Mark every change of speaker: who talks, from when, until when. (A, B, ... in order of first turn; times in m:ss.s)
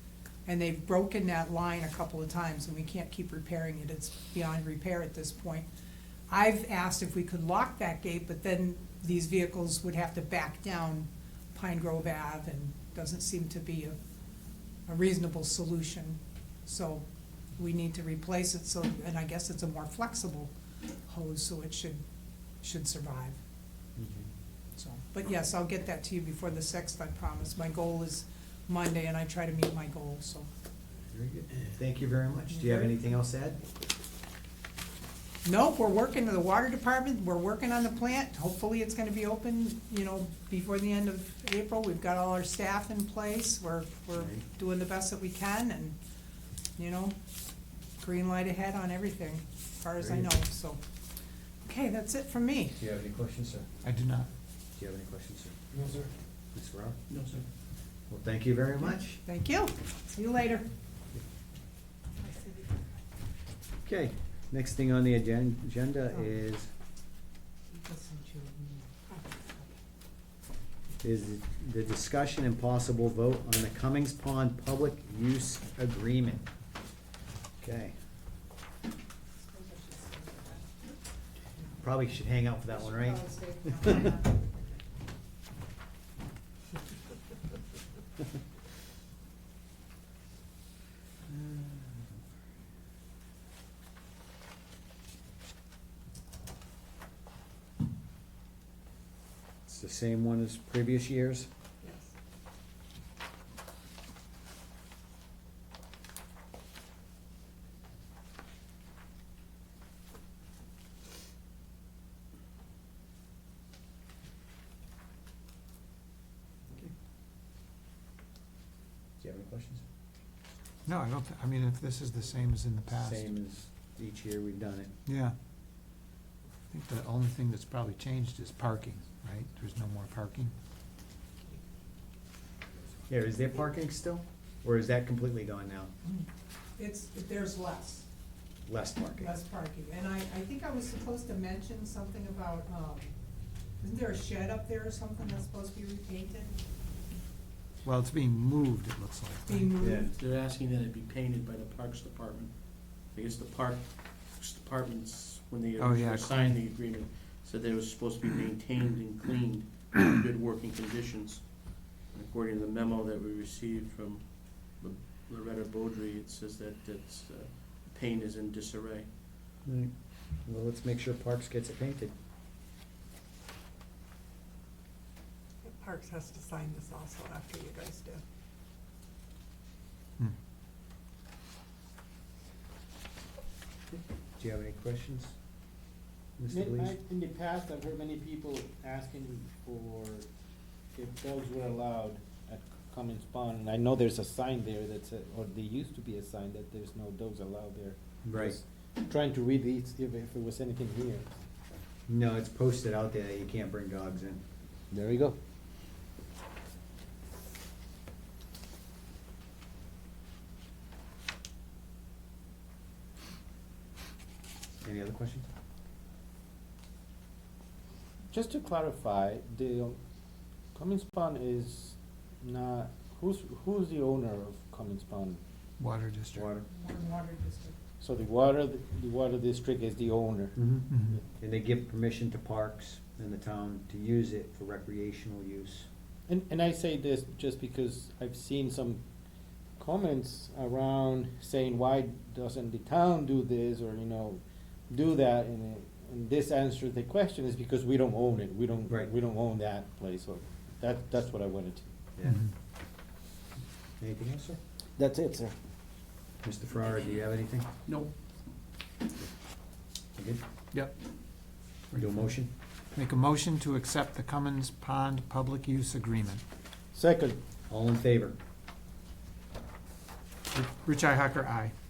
0:00.4-0:05.6 A
0:06.3-0:14.0 A
0:14.9-0:17.0 A
0:17.6-0:20.5 A
0:21.0-0:22.0 A
0:22.6-0:23.4 A
0:24.0-0:24.3 B
0:24.8-0:30.5 A
0:31.1-0:33.6 B
0:32.5-0:32.9 A
0:35.4-0:46.0 A
0:44.1-0:44.4 B
0:46.8-0:47.2 A
0:48.0-0:50.8 A
0:50.0-0:50.3 B
0:51.6-0:52.8 A
0:52.8-0:53.7 B
0:53.8-0:54.3 C
0:54.8-0:55.6 B
0:55.7-0:56.1 D
0:56.5-0:57.0 B
0:57.1-0:57.5 E
0:58.1-0:59.2 B
0:59.1-1:00.6 A
1:02.2-1:02.7 F
1:03.8-1:06.7 B
1:07.7-1:09.7 A
1:11.0-1:16.4 B
1:17.6-1:17.9 B
1:19.5-1:20.6 A
1:21.8-1:24.0 B
1:23.1-1:24.4 A
1:31.4-1:31.8 B
1:39.6-1:41.5 B
1:59.2-1:59.8 B
2:00.8-2:03.3 C
2:03.0-2:04.9 B
2:05.0-2:05.3 C
2:06.7-2:10.5 C
2:13.1-2:15.9 B
2:16.0-2:18.1 A
2:18.6-2:19.3 B
2:19.2-2:23.1 A
2:23.8-2:26.6 A
2:27.8-2:29.7 C
2:29.4-2:30.1 A
2:29.8-2:30.1 B
2:30.0-2:49.1 E
2:35.8-2:36.4 C
2:49.6-2:52.1 B
2:55.6-2:58.2 F
3:03.9-3:05.3 B
3:06.4-3:07.0 B
3:06.5-3:10.3 D
3:10.9-3:21.4 D
3:18.2-3:18.6 B
3:22.1-3:24.4 B
3:24.9-3:25.4 D
3:34.8-3:35.5 B
3:38.3-3:40.0 D
3:40.7-3:45.4 D
3:45.8-3:46.5 C
3:46.3-3:46.7 B
3:46.7-3:47.7 A
3:48.0-3:50.6 D
3:50.6-3:55.9 B
3:50.9-3:51.2 C
3:56.3-3:59.0 D
3:59.8-4:11.9 D
4:12.2-4:12.4 B
4:12.2-4:12.5 C
4:14.0-4:14.6 B
4:15.0-4:15.6 D
4:16.4-4:17.7 B
4:17.8-4:18.1 E
4:20.2-4:20.4 B
4:20.7-4:21.0 C
4:21.9-4:22.5 B
4:22.9-4:26.4 C
4:26.9-4:27.4 D
4:27.7-4:28.4 B
4:30.5-4:31.7 C